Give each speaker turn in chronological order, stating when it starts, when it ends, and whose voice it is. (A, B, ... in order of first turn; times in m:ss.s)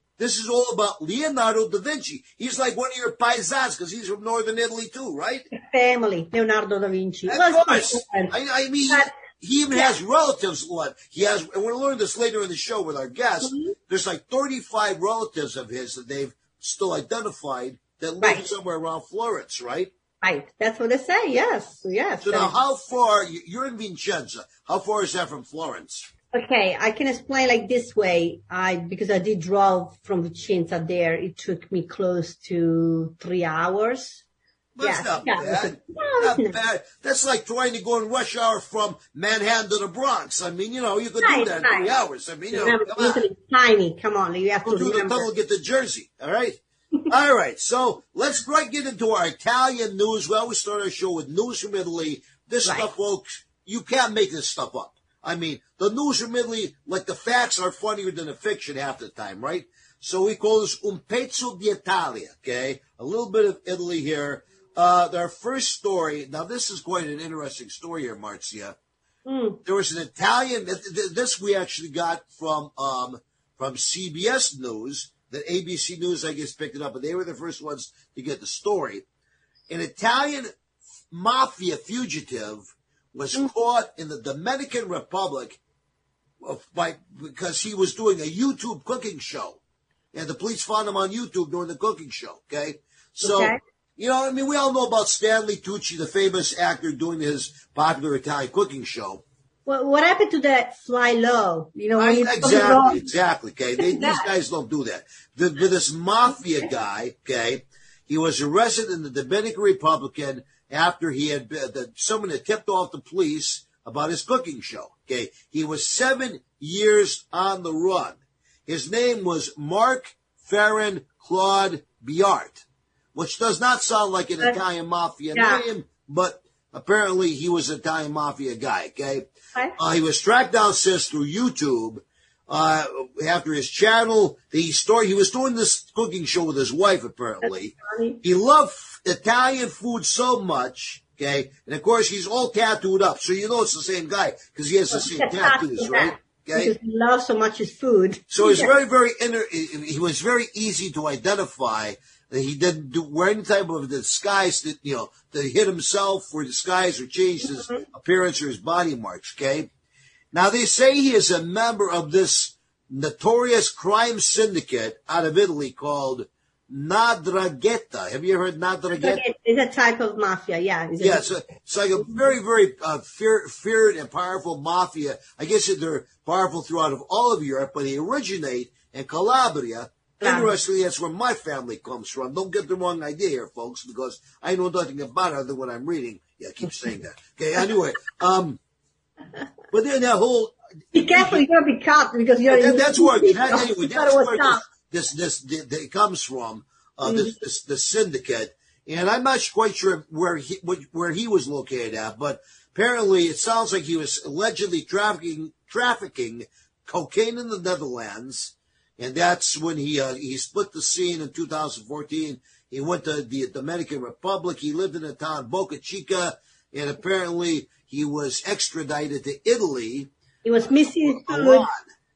0:00.2-0:05.5 A
0:05.5-0:08.3 B
0:07.3-0:19.9 A
0:13.4-0:13.8 B
0:18.2-0:18.5 B
0:20.2-0:22.5 B
0:22.2-0:26.1 A
0:26.3-0:34.2 B
0:34.8-0:43.2 A
0:34.8-0:36.5 B
0:41.2-0:41.9 B
0:42.5-0:45.3 B
0:44.6-1:08.8 A
1:09.3-1:09.6 B
1:09.6-1:19.0 A
1:19.7-1:20.5 A
1:21.1-1:25.6 A
1:26.4-1:29.6 A
1:30.1-1:39.2 A
1:33.2-1:33.6 B
1:39.7-1:43.0 B
1:41.9-2:02.6 A
1:43.8-1:44.3 B
2:03.2-2:26.7 A
2:05.3-2:05.6 B
2:17.4-2:18.2 B
2:24.9-2:28.7 B
2:28.3-2:39.7 A
2:37.5-2:37.8 B
2:40.3-2:49.2 A
2:48.9-2:51.2 B
2:51.0-3:08.6 A
3:00.2-3:00.5 B
3:09.7-3:11.4 A
3:10.9-3:14.6 B
3:12.5-3:40.1 A
3:17.0-3:17.4 B
3:40.4-3:41.7 B
3:40.9-3:41.8 A